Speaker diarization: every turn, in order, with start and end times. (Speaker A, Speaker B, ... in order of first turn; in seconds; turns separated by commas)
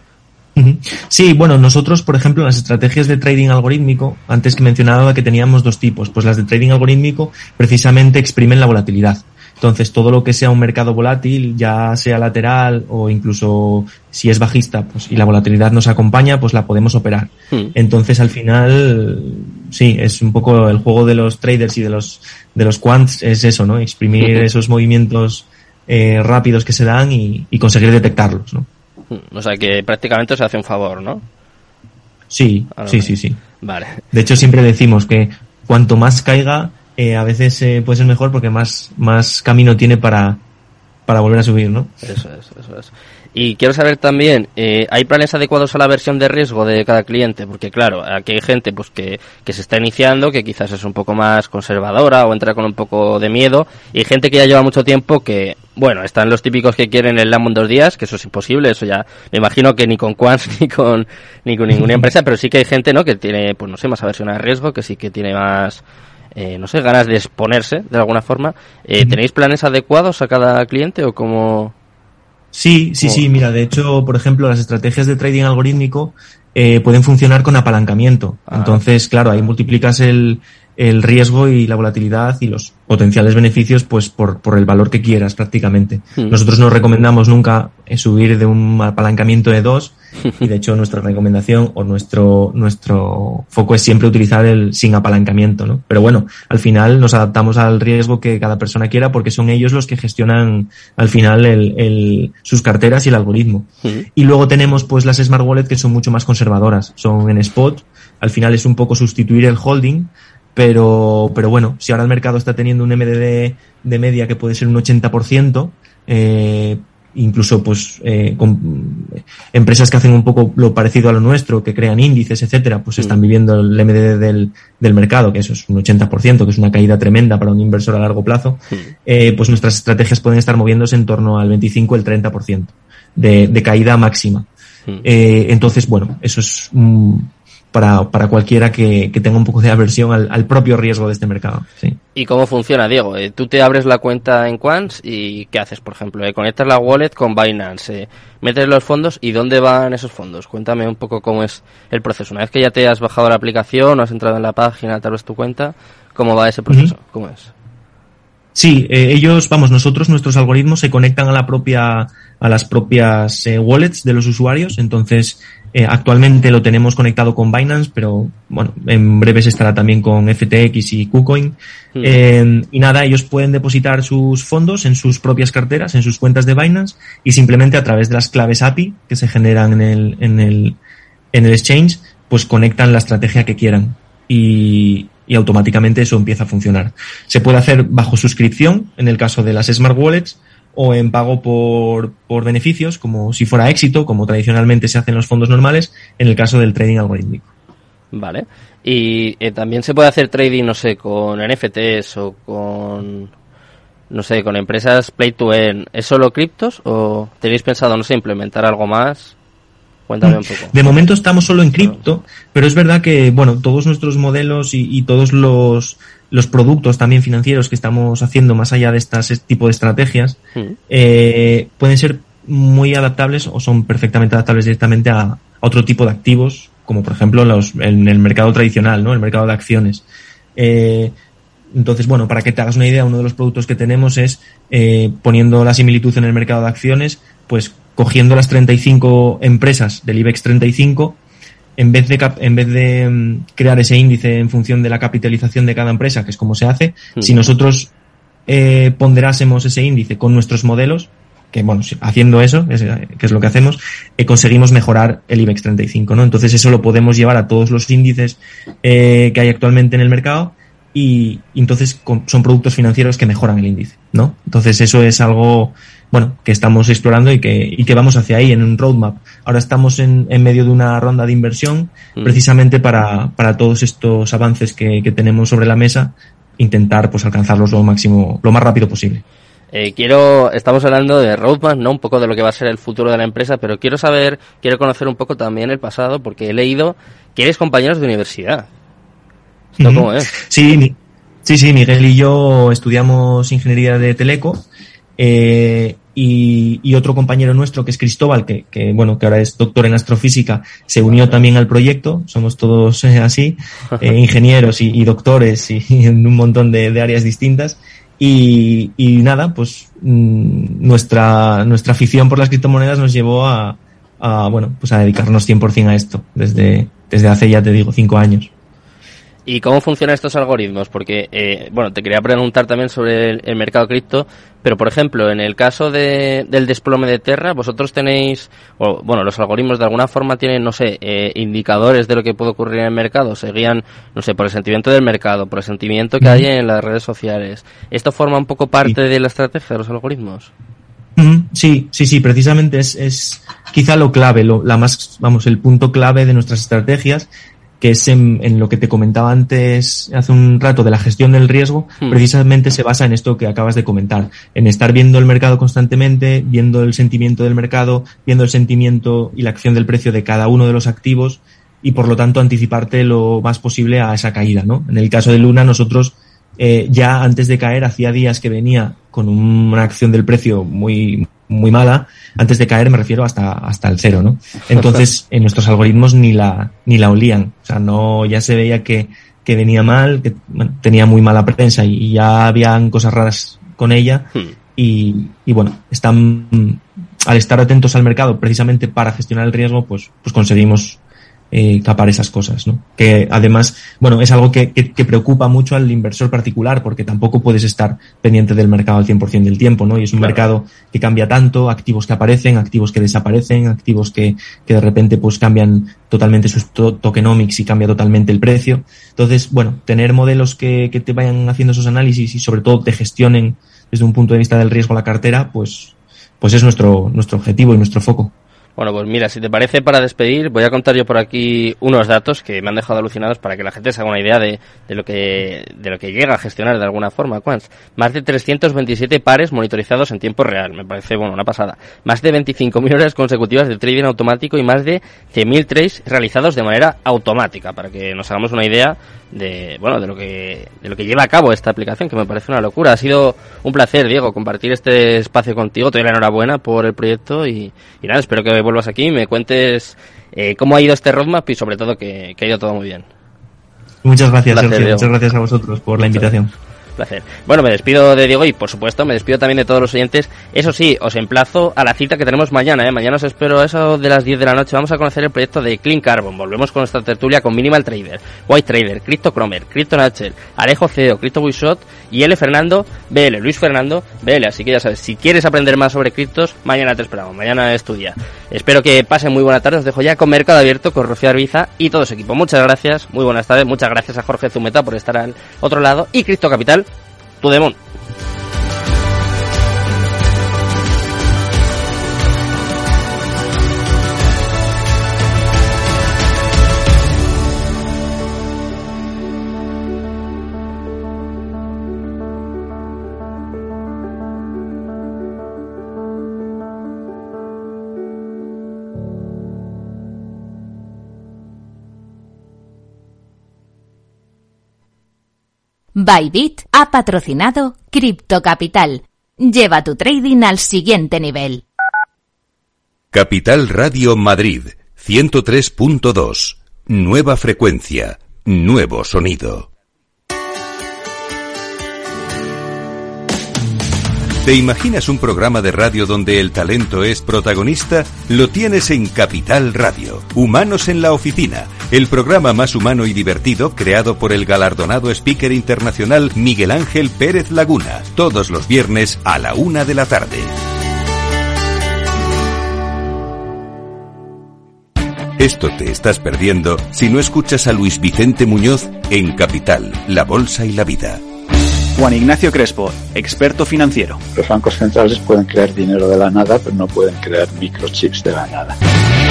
Speaker A: 0.6-28.7, Speaker B: 29.1-31.2, Speaker A: 32.3-33.4, Speaker B: 32.7-34.0, Speaker A: 34.1-40.4, Speaker A: 41.1-42.0, Speaker B: 42.0-65.8, Speaker B: 66.3-71.7, Speaker A: 72.5-134.5, Speaker B: 73.0-73.2, Speaker B: 78.5-78.8, Speaker A: 135.0-142.0, Speaker B: 142.1-157.5, Speaker A: 158.5-180.8, Speaker A: 181.3-197.5, Speaker B: 198.1-203.3, Speaker B: 204.1-209.3, Speaker B: 210.1-210.8, Speaker A: 210.2-231.1, Speaker A: 231.7-241.2, Speaker A: 241.8-247.9, Speaker A: 248.5-279.2, Speaker B: 279.7-288.7, Speaker A: 289.8-294.7, Speaker B: 289.8-290.3, Speaker A: 295.2-318.5, Speaker B: 319.4-340.5, Speaker A: 341.1-347.3, Speaker A: 347.8-418.3, Speaker B: 400.2-400.4, Speaker B: 418.8-453.1, Speaker A: 454.0-456.5, Speaker B: 454.5-455.1, Speaker B: 457.0-486.9, Speaker B: 487.4-487.8, Speaker C: 515.9-521.6, Speaker D: 523.1-529.7, Speaker D: 534.4-550.5, Speaker D: 555.4-561.2, Speaker E: 562.0-564.2, Speaker F: 564.3-568.8